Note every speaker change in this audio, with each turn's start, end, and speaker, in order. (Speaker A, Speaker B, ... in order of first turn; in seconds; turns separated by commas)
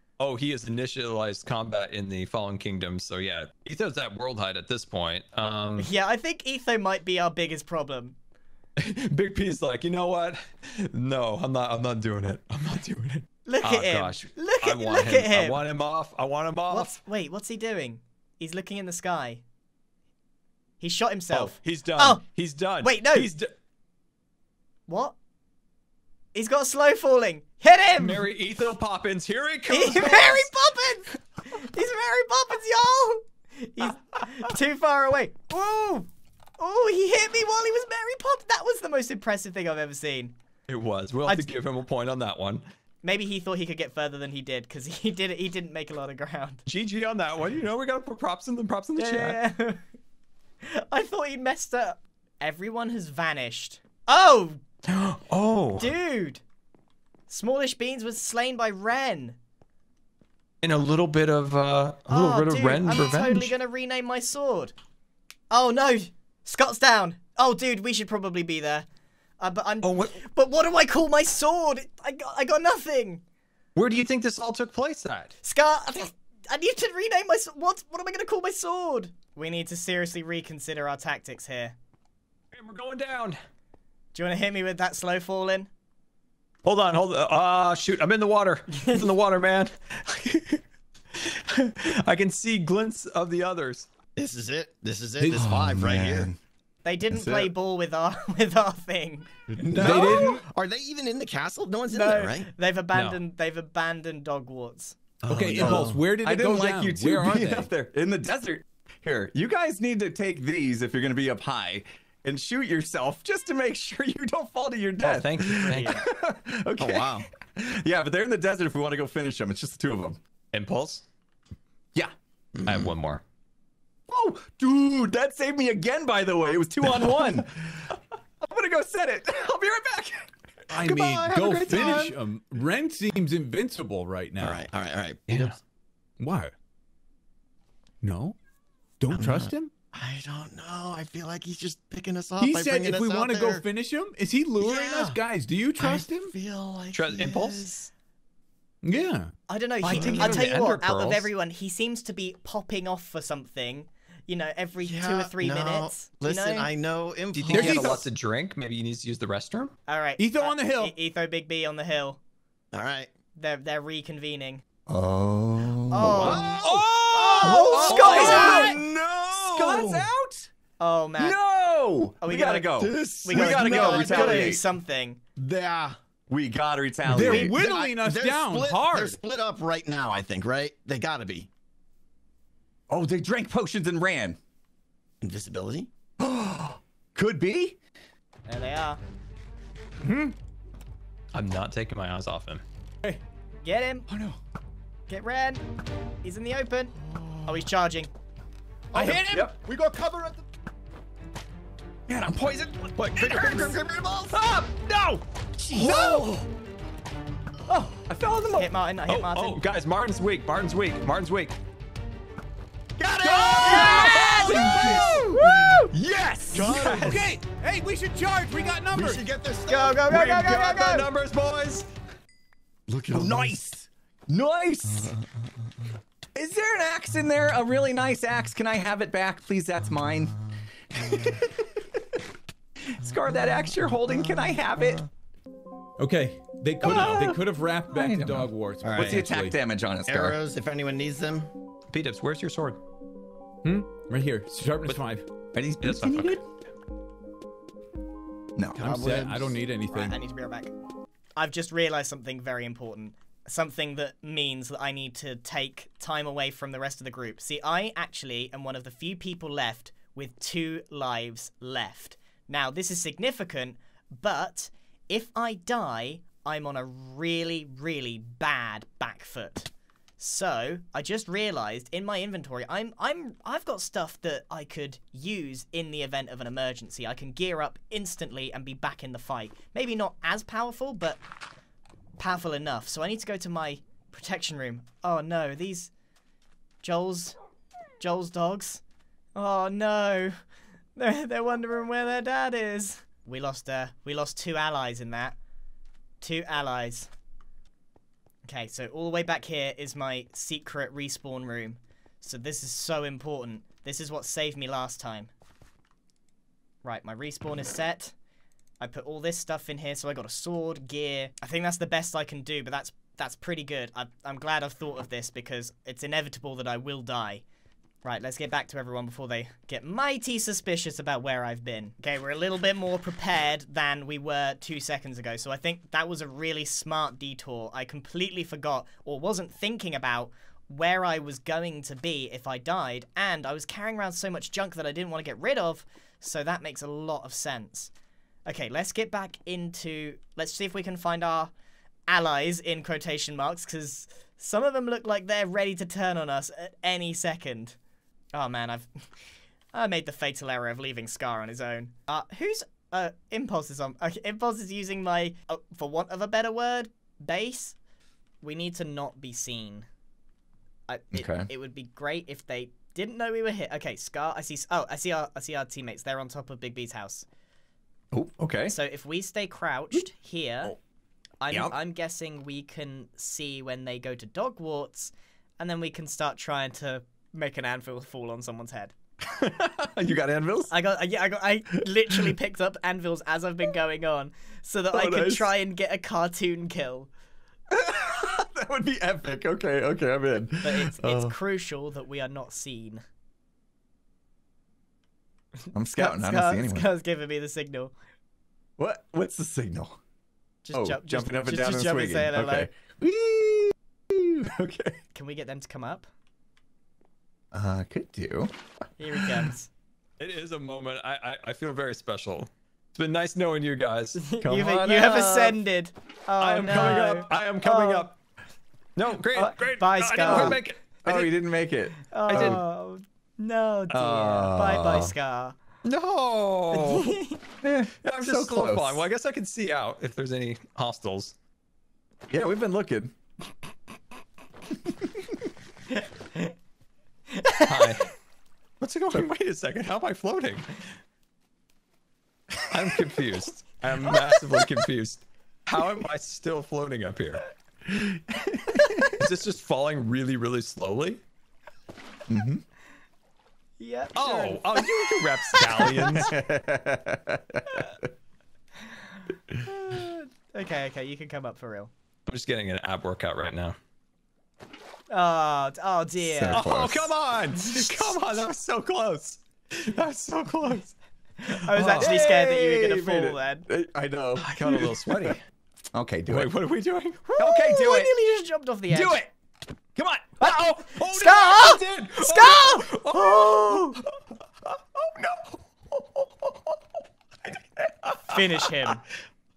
Speaker A: 0.2-5.9, Speaker B: 5.8-8.2, Speaker A: 8.8-17.0, Speaker B: 13.4-15.6, Speaker B: 16.7-19.4, Speaker B: 20.8-22.2, Speaker A: 21.3-23.5, Speaker B: 22.8-23.3, Speaker B: 24.9-25.1, Speaker B: 26.3-28.2, Speaker A: 28.0-30.5, Speaker B: 29.7-40.3, Speaker A: 40.7-42.6, Speaker B: 43.0-46.6, Speaker A: 46.6-49.4, Speaker B: 49.0-49.8, Speaker B: 50.6-54.6, Speaker A: 54.9-55.9, Speaker B: 55.8-56.4, Speaker B: 57.3-59.4, Speaker A: 60.6-63.5, Speaker B: 62.1-64.7, Speaker B: 65.5-68.9, Speaker B: 69.4-73.2, Speaker A: 69.8-70.2, Speaker A: 73.7-75.3, Speaker B: 75.4-81.7, Speaker A: 82.5-83.4, Speaker B: 84.1-85.7, Speaker A: 86.6-90.6, Speaker A: 91.1-93.9, Speaker C: 94.2-96.3, Speaker D: 95.2-95.6, Speaker E: 95.3-96.4, Speaker B: 96.8-99.3, Speaker E: 97.1-97.5, Speaker E: 99.5-100.4, Speaker C: 99.7-102.5, Speaker D: 99.7-100.4, Speaker B: 101.9-105.0, Speaker A: 102.9-103.2, Speaker E: 105.2-120.2, Speaker D: 105.3-107.7, Speaker C: 105.3-106.0, Speaker A: 115.0-116.0, Speaker B: 115.6-116.0, Speaker C: 116.8-117.3, Speaker A: 120.5-121.0, Speaker A: 122.6-123.2, Speaker E: 124.1-127.9, Speaker E: 128.4-132.1, Speaker D: 130.7-134.7, Speaker C: 131.6-132.1, Speaker C: 134.4-135.6, Speaker A: 135.3-135.6, Speaker D: 136.2-136.5, Speaker D: 138.0-138.4, Speaker D: 139.0-139.7, Speaker C: 139.1-143.6, Speaker D: 142.4-146.3, Speaker C: 144.6-145.2, Speaker C: 145.7-147.9, Speaker A: 146.9-147.6, Speaker D: 148.8-149.3, Speaker B: 149.5-156.7, Speaker A: 149.8-151.3, Speaker C: 149.9-150.5, Speaker C: 154.8-158.0, Speaker A: 157.3-159.7, Speaker D: 157.5-158.0, Speaker B: 159.9-162.2, Speaker D: 160.2-160.9, Speaker C: 162.7-163.1, Speaker B: 163.3-164.6, Speaker E: 164.9-170.5, Speaker B: 165.9-166.6, Speaker C: 165.9-166.8, Speaker D: 166.6-168.8, Speaker B: 167.1-168.7, Speaker C: 167.3-170.1, Speaker B: 170.8-171.4, Speaker E: 171.2-174.6, Speaker B: 172.2-175.2, Speaker C: 172.8-174.6, Speaker C: 175.4-176.0, Speaker E: 176.3-177.6, Speaker D: 177.1-179.2, Speaker C: 177.1-181.5, Speaker E: 182.9-184.4, Speaker C: 185.2-185.9, Speaker E: 186.2-187.8, Speaker B: 188.5-189.0, Speaker D: 190.0-190.3, Speaker A: 191.3-192.6, Speaker B: 193.6-194.1, Speaker E: 194.1-194.4, Speaker B: 195.1-195.6, Speaker B: 196.2-198.1, Speaker D: 198.9-199.5, Speaker C: 198.9-200.4, Speaker A: 199.2-199.6, Speaker E: 202.1-202.9, Speaker A: 202.9-203.8, Speaker C: 203.1-204.5, Speaker A: 204.3-205.2, Speaker E: 205.7-206.3, Speaker C: 205.8-206.3, Speaker A: 208.1-211.5, Speaker E: 208.1-208.4, Speaker B: 208.6-209.6, Speaker A: 213.0-214.6, Speaker E: 213.0-216.9, Speaker D: 213.2-215.4, Speaker B: 213.6-214.5, Speaker C: 214.0-215.2, Speaker B: 215.4-215.7, Speaker A: 216.4-217.3, Speaker D: 216.8-219.2, Speaker C: 218.9-220.0, Speaker B: 219.7-221.1, Speaker A: 220.0-221.9, Speaker C: 222.9-223.5, Speaker E: 223.1-225.1, Speaker E: 226.3-230.3, Speaker E: 230.9-231.5, Speaker E: 232.9-235.0, Speaker D: 236.0-239.5, Speaker E: 236.8-237.2, Speaker C: 236.8-237.4, Speaker E: 237.9-240.4, Speaker C: 238.8-239.3, Speaker C: 240.1-241.5, Speaker A: 241.9-242.8, Speaker D: 243.6-245.2, Speaker E: 245.5-246.4, Speaker A: 245.8-246.4, Speaker E: 248.6-249.2, Speaker D: 248.8-250.2, Speaker B: 248.9-250.7, Speaker B: 251.4-281.2, Speaker B: 282.2-285.9, Speaker B: 286.8-287.4, Speaker B: 288.0-288.8, Speaker B: 289.3-290.4, Speaker B: 290.9-295.4, Speaker B: 296.2-297.1, Speaker B: 298.4-305.3, Speaker B: 306.8-308.1, Speaker B: 308.8-317.4, Speaker B: 318.0-337.9, Speaker B: 338.4-341.5, Speaker B: 342.1-347.8, Speaker B: 348.3-348.9, Speaker B: 349.7-357.8, Speaker B: 358.4-359.9, Speaker B: 360.9-367.2, Speaker E: 361.1-361.5, Speaker E: 368.1-368.7, Speaker B: 368.7-370.7, Speaker B: 371.4-378.9, Speaker E: 379.5-380.7, Speaker B: 380.7-387.1, Speaker E: 384.9-385.4, Speaker E: 387.7-391.4, Speaker B: 390.6-393.0, Speaker B: 395.7-397.9, Speaker E: 395.7-396.9, Speaker E: 398.8-400.0, Speaker B: 400.6-402.7, Speaker E: 400.7-405.0, Speaker B: 405.1-406.1, Speaker E: 407.5-408.5, Speaker B: 409.0-409.7, Speaker E: 409.1-409.5, Speaker A: 410.2-414.2, Speaker B: 414.1-418.1, Speaker E: 414.4-415.6, Speaker A: 416.4-418.2, Speaker A: 418.9-420.8, Speaker B: 419.3-420.6, Speaker E: 420.2-422.6, Speaker B: 422.1-425.6, Speaker A: 422.3-422.6, Speaker E: 423.9-425.1, Speaker A: 425.8-427.2, Speaker B: 426.7-427.4, Speaker E: 427.6-429.0, Speaker A: 428.0-431.3, Speaker E: 432.3-433.1, Speaker B: 437.4-437.9, Speaker A: 437.6-438.1, Speaker A: 438.8-440.7, Speaker A: 442.7-447.4, Speaker E: 448.7-449.0, Speaker A: 449.1-451.2, Speaker E: 452.3-452.6, Speaker B: 453.8-454.9, Speaker A: 454.1-456.3, Speaker B: 455.6-456.3, Speaker E: 456.3-457.8, Speaker B: 459.6-461.9, Speaker A: 462.3-463.7, Speaker B: 465.1-466.6, Speaker E: 466.2-467.1, Speaker A: 466.5-470.9, Speaker B: 467.7-468.1, Speaker B: 471.4-473.6, Speaker A: 471.7-472.2, Speaker E: 471.8-475.3, Speaker A: 474.4-475.4, Speaker E: 475.9-476.5, Speaker A: 476.3-478.1, Speaker B: 477.3-479.2, Speaker A: 480.0-484.1, Speaker E: 480.4-480.7, Speaker B: 481.0-484.0, Speaker A: 487.9-488.7, Speaker B: 488.3-489.0